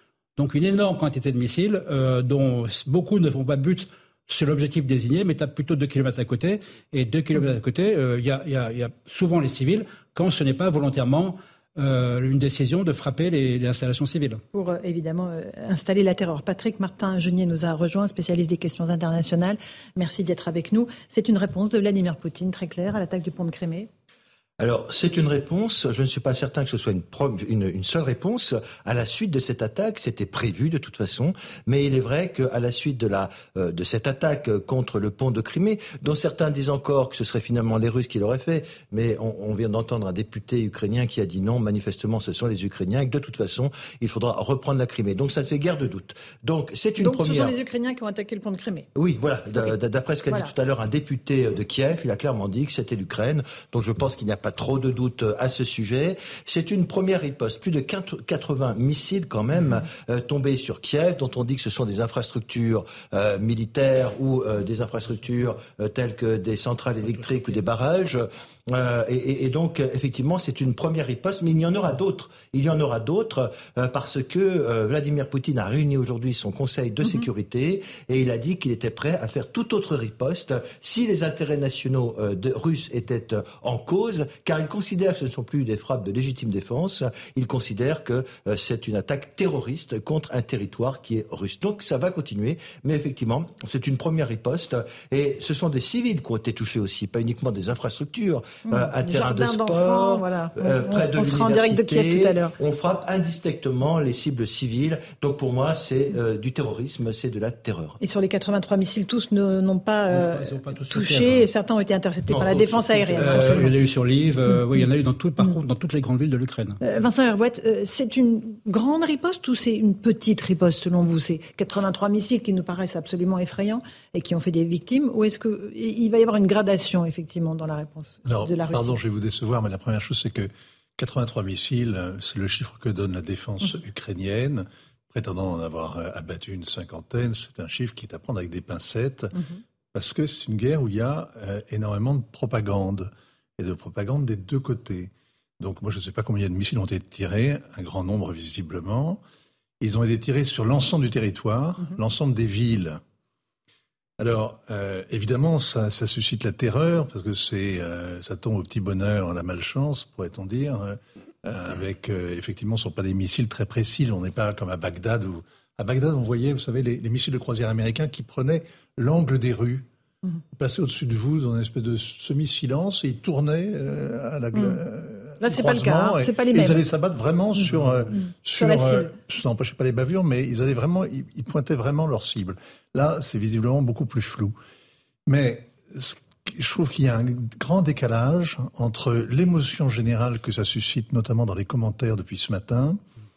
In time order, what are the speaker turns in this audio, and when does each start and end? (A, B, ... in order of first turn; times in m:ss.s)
0:00.4-0:14.4 A
0:14.5-0:23.9 B
0:24.6-0:47.5 C
0:47.0-0:48.9 B
0:49.0-1:48.0 C
1:38.7-1:42.5 B
1:48.0-1:53.7 B
1:50.1-1:51.5 A
1:52.4-1:53.4 C
1:53.2-1:56.8 A
1:54.5-1:54.8 B
1:56.8-2:09.0 B
2:08.2-2:19.3 D
2:19.9-2:29.2 D
2:29.8-2:33.0 D
2:34.2-2:49.9 D
2:50.5-3:04.6 D
2:55.4-2:56.8 B
2:57.6-2:59.1 B
3:05.3-3:13.0 D